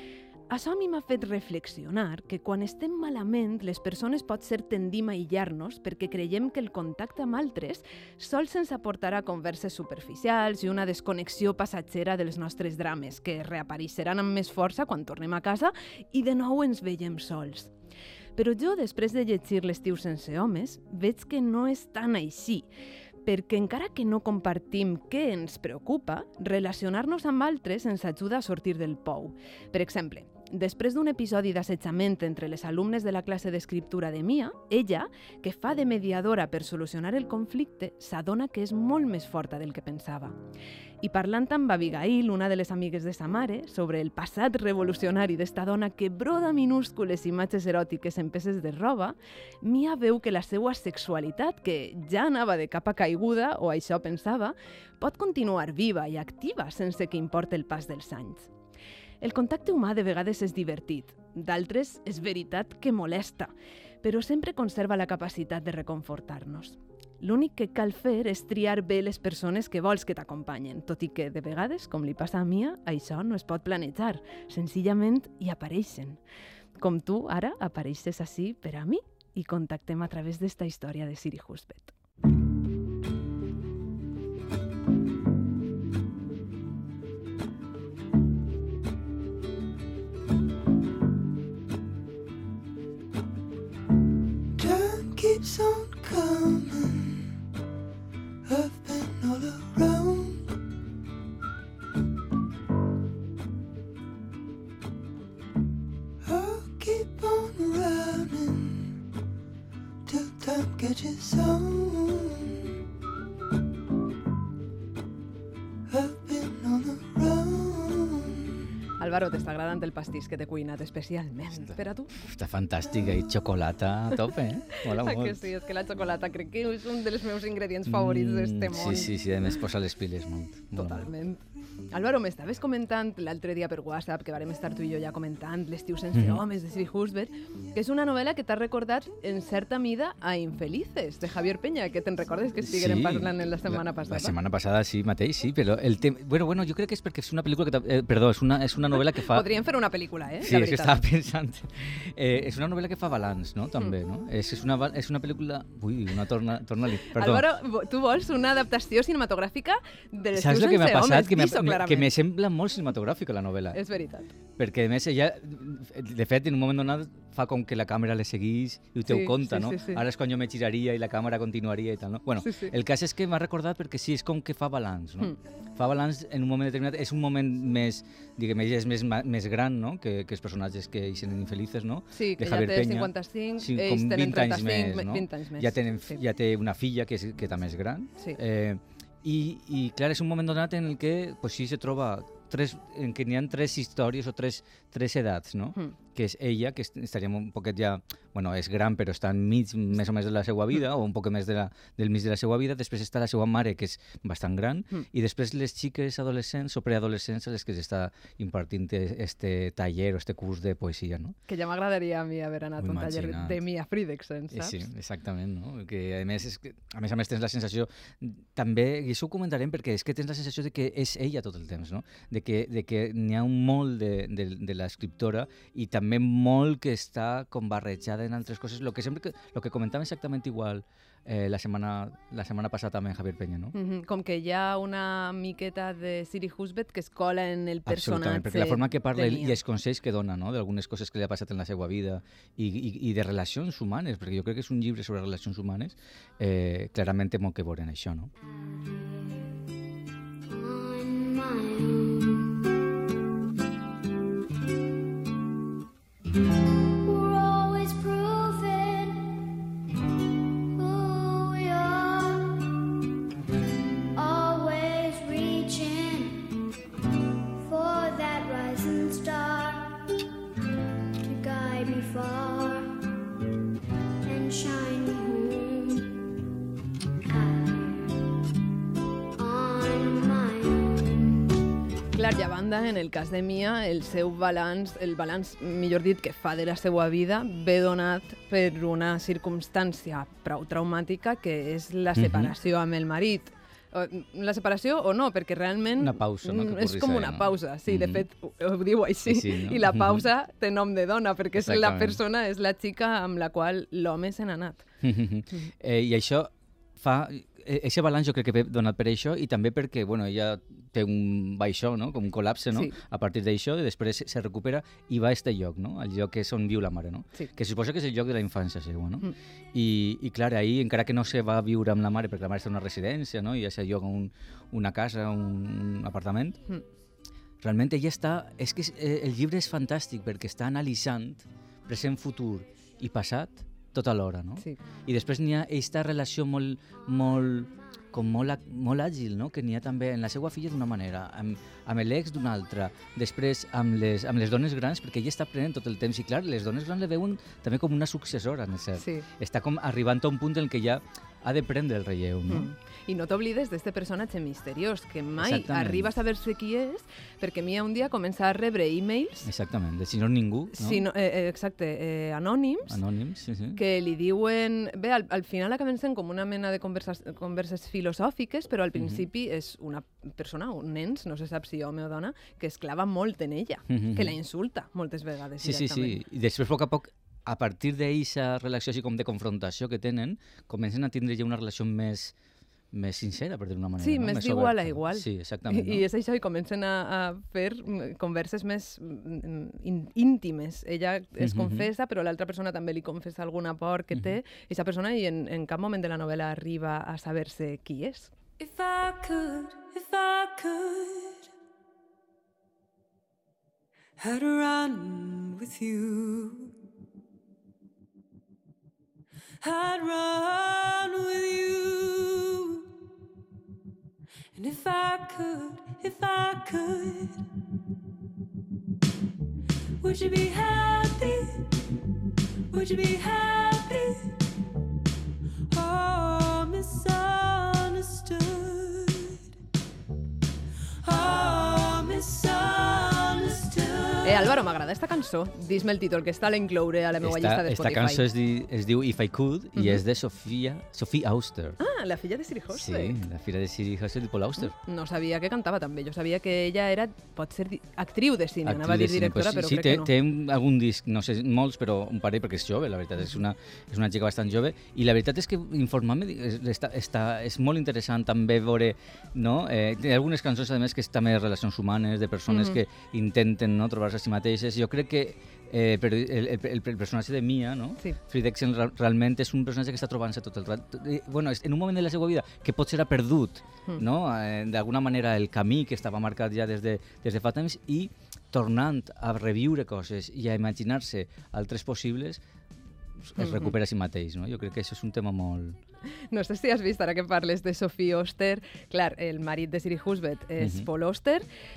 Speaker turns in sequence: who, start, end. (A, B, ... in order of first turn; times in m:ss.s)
0:00.5-0:17.7 A
0:18.4-0:22.7 A
0:23.2-0:40.4 A
0:41.0-0:58.5 A
0:59.2-1:03.5 A
1:04.0-1:16.2 A
1:16.8-1:21.9 A
1:39.1-1:40.2 B
1:46.3-1:48.6 B
1:50.1-1:51.9 B
1:56.1-1:57.4 B
1:59.0-2:02.2 A
2:01.6-2:05.5 C
2:04.8-2:09.1 A
2:07.8-2:11.1 C
2:10.8-2:24.4 A
2:16.1-2:16.4 C
2:22.6-2:29.5 C
2:29.1-2:31.0 A
2:30.4-2:37.5 C
2:37.1-2:42.1 A
2:40.3-2:43.8 C
2:43.7-2:44.3 A
2:44.6-3:31.4 C
2:49.1-2:50.0 A
2:52.4-2:52.7 A
3:02.1-3:06.2 A
3:31.5-3:34.8 A
3:32.8-3:33.6 C
3:34.5-3:53.8 C
3:53.7-3:59.6 A
3:57.8-4:08.3 C
4:08.4-4:09.6 D
4:10.5-4:12.6 D
4:17.0-4:19.3 D
4:20.7-4:22.5 D
4:24.2-4:26.5 D
4:27.6-4:30.0 D
4:31.2-4:33.0 D
4:34.2-4:36.2 D
4:37.2-4:38.2 D
4:39.4-4:41.4 D
4:42.1-5:04.8 A
4:52.2-4:52.5 C
4:56.0-4:58.2 C
4:59.3-5:00.3 C
5:01.6-5:02.2 C
5:05.0-5:26.6 C
5:12.7-5:13.0 A
5:27.6-5:52.7 C
5:49.0-5:49.3 A
5:52.5-5:59.5 A
5:55.4-5:56.1 C
5:59.4-6:01.1 C
6:00.7-6:03.0 A
6:02.9-6:03.8 C
6:03.8-6:16.2 A
6:09.0-6:09.2 C
6:13.9-6:14.4 C
6:15.6-6:22.4 C
6:22.9-6:26.1 C
6:24.0-6:38.3 A
6:31.4-6:31.9 C
6:34.1-6:34.4 C
6:38.6-6:41.5 E
6:44.2-6:46.7 E
6:49.6-6:52.8 E
6:54.6-6:57.4 E
7:00.0-7:01.7 E
7:02.7-7:04.3 E
7:05.7-7:09.4 E
7:11.0-7:14.6 E
7:14.2-7:18.2 A
7:17.2-7:21.8 C
7:19.8-7:20.0 A
7:21.8-7:23.2 A
7:22.7-7:24.8 C
7:24.7-7:30.1 A
7:28.6-8:02.4 C
7:42.5-7:42.8 A
8:03.2-8:05.8 C
8:03.4-8:03.7 A
8:06.3-8:11.5 A
8:10.6-8:10.9 C